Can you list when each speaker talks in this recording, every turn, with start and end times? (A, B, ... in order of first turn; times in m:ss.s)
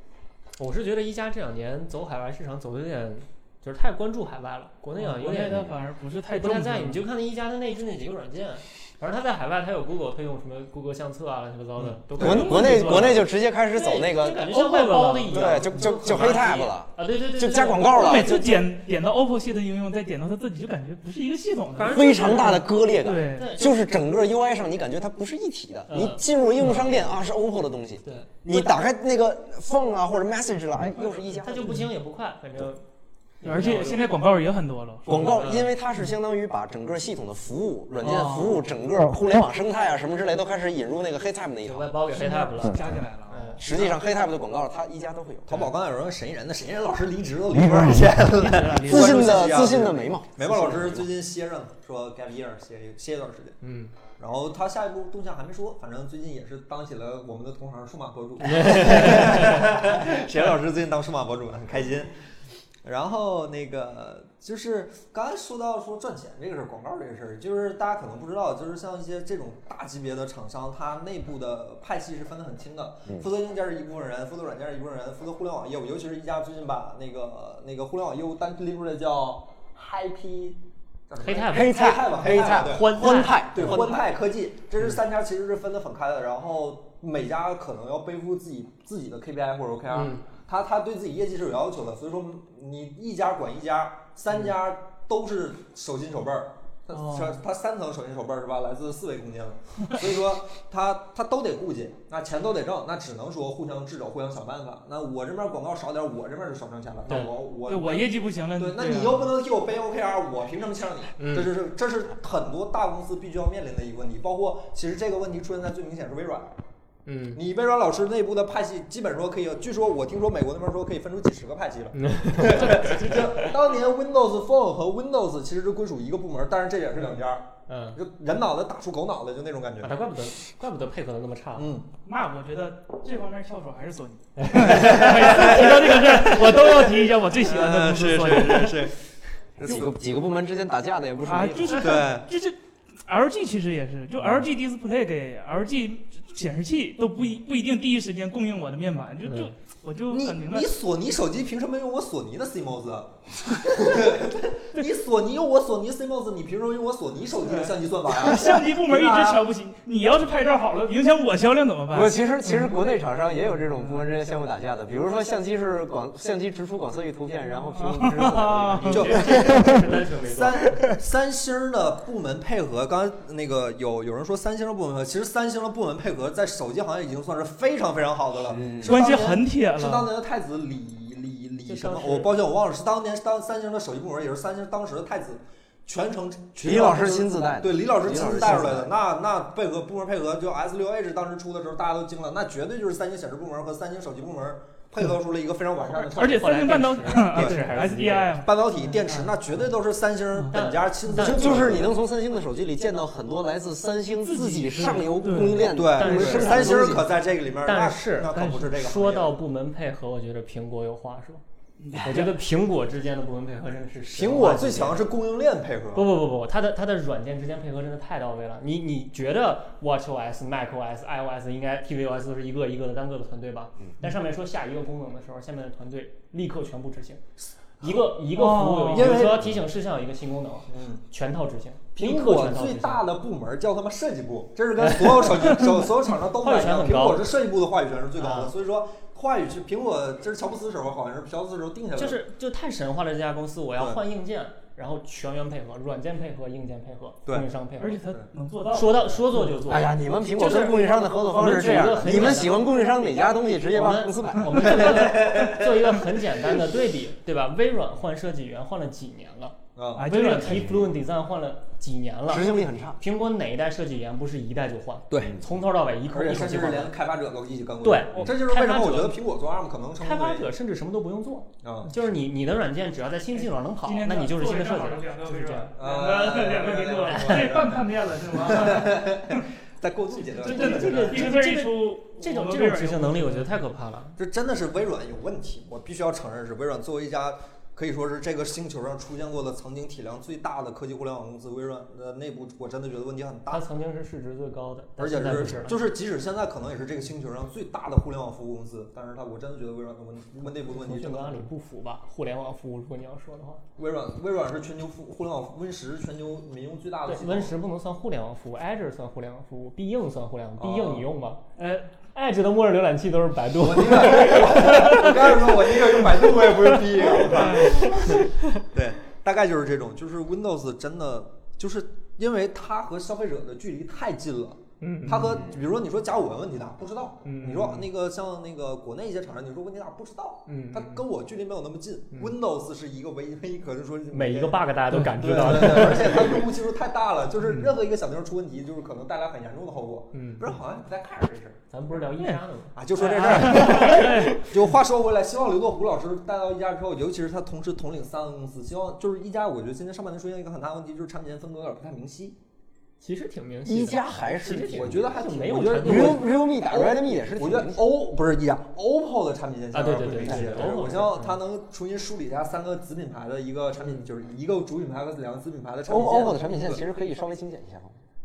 0:00.6-0:05.7 A
0:05.0-0:07.0 B
0:06.2-0:18.5 A
0:11.8-0:12.5 C
0:12.2-0:14.5 D
0:12.2-0:13.2 B
0:14.4-0:16.2 B
0:15.3-0:18.6 D
0:18.0-0:23.6 B
0:21.8-0:23.8 A
0:21.9-0:31.9 D
0:25.9-0:27.1 A
0:28.0-0:28.3 A
0:31.4-0:32.8 A
0:33.4-0:34.2 A
0:33.4-0:35.5 B
0:35.1-0:41.9 D
0:35.1-0:35.7 A
0:38.0-0:38.6 B
0:41.6-0:43.7 A
0:42.1-0:43.9 B
0:43.6-0:45.7 D
0:45.5-0:53.6 C
0:48.4-0:49.7 B
0:48.8-0:51.1 D
0:53.6-0:53.9 A
0:54.2-1:02.1 C
0:58.5-0:59.6 A
1:02.8-1:20.6 C
1:21.1-1:56.6 C
1:21.2-1:24.0 A
1:21.5-1:24.0 D
1:29.9-1:30.2 A
1:36.9-1:37.4 B
1:47.7-1:49.3 B
1:51.2-1:51.5 A
1:57.1-1:57.4 A
1:57.4-2:10.0 C
2:02.0-2:03.4 A
2:07.7-2:08.0 A
2:09.8-2:11.7 A
2:11.6-2:11.9 C
2:12.0-2:18.9 B
2:14.4-2:16.8 A
2:14.6-2:16.7 C
2:17.4-2:19.0 C
2:19.6-2:20.0 C
2:19.6-2:21.9 D
2:21.3-2:30.7 B
2:21.7-2:22.3 C
2:29.2-2:29.5 A
2:30.1-2:39.5 C
2:37.5-2:42.8 B
2:41.9-2:49.8 D
2:47.7-2:49.1 B
2:48.8-2:50.6 A
2:48.9-2:49.6 C
2:50.2-3:17.7 C
2:58.5-2:59.0 D
2:58.8-3:00.1 B
3:01.7-3:02.3 A
3:06.6-3:08.9 D
3:16.1-3:18.5 A
3:16.2-3:19.4 B
3:18.4-3:22.0 C
3:20.5-3:21.8 A
3:21.2-3:27.1 D
3:24.2-3:25.7 B
3:25.7-3:29.4 C
3:25.9-3:27.0 A
3:27.6-3:31.4 A
3:28.3-3:28.7 B
3:31.8-3:32.3 B
3:32.0-3:35.1 A
3:34.1-3:36.1 C
3:36.0-3:47.2 A
3:47.8-3:53.0 A
3:48.3-3:49.3 B
3:48.9-3:49.6 C
3:50.7-3:51.0 C
3:52.0-4:02.2 C
3:54.8-3:55.6 A
3:56.4-3:57.3 A
3:58.2-3:58.5 A
4:02.0-4:08.0 A
4:07.8-4:09.6 B
4:08.7-4:12.6 A
4:09.7-4:15.0 D
4:13.7-4:19.6 A
4:14.5-4:16.0 C
4:19.8-4:20.1 C
4:20.0-4:20.9 B
4:20.1-4:27.0 A
4:22.3-4:23.0 D
4:25.1-4:25.4 C
4:26.1-4:30.5 C
4:27.8-4:29.2 A
4:30.0-4:35.7 A
4:31.6-4:31.9 C
4:33.8-4:39.4 B
4:35.8-4:41.4 C
4:37.1-4:37.6 A
4:40.2-4:43.6 B
4:40.4-4:44.2 A
4:44.2-4:53.6 C
4:53.5-4:55.9 A
4:55.0-5:01.4 C
5:00.6-5:03.6 A
5:03.8-5:07.6 C
5:07.0-5:11.4 A
5:10.6-5:11.1 C
5:11.6-5:11.9 B
5:12.1-5:18.2 A
5:13.6-5:34.6 C
5:17.4-5:18.1 B
5:24.8-5:25.5 A
5:27.2-5:27.9 A
5:30.5-5:31.0 A
5:34.1-5:36.4 A
5:34.9-5:35.9 B
5:35.2-5:41.6 C
5:40.1-5:40.5 A
5:41.7-5:44.3 A
5:42.8-5:52.4 C
5:43.0-5:44.6 B
5:53.0-5:56.3 A
5:53.6-5:55.2 D
5:54.7-6:06.8 C
5:55.7-5:57.9 D
5:59.7-6:01.4 A
6:00.3-6:00.5 D
6:05.9-6:08.0 D